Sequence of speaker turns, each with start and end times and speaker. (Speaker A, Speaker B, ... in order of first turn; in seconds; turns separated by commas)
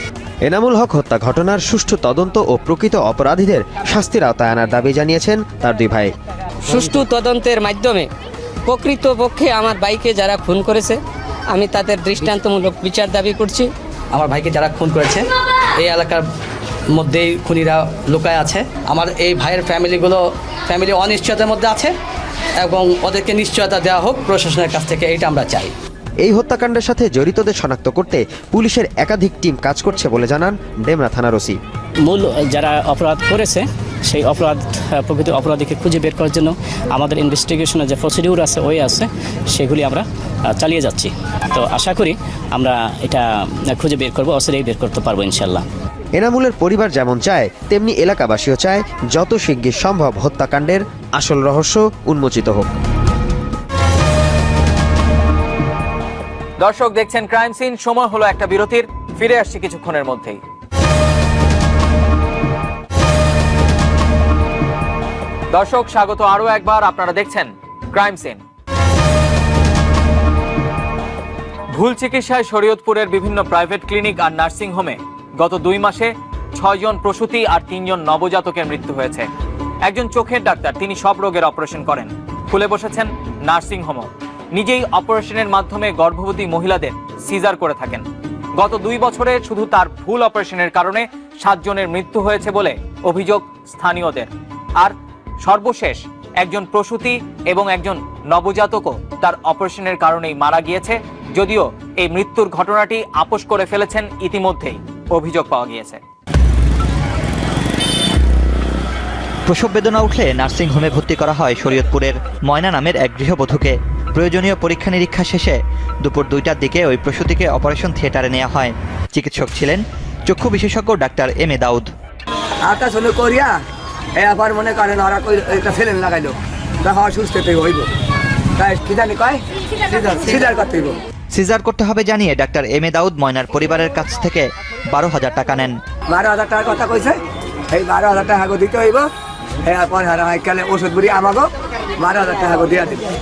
Speaker A: 0.5-6.1, Speaker B: 6.7-8.1, Speaker B: 8.7-11.0, Speaker B: 11.5-13.7, Speaker C: 14.2-15.2, Speaker C: 15.9-16.1, Speaker C: 17.0-20.1, Speaker C: 20.7-21.9, Speaker C: 22.7-25.7, Speaker A: 26.2-31.6, Speaker D: 32.0-45.7, Speaker A: 46.2-52.7, Speaker E: 56.6-60.4, Speaker E: 65.5-68.4, Speaker E: 71.8-79.3, Speaker E: 79.9-88.0, Speaker E: 88.6-94.3, Speaker E: 94.8-106.0, Speaker F: 109.5-121.9, Speaker G: 122.7-123.6, Speaker G: 124.2-127.9, Speaker G: 128.6-131.0, Speaker F: 131.3-135.8, Speaker G: 136.1-137.2, Speaker G: 137.7-139.1, Speaker G: 139.7-143.0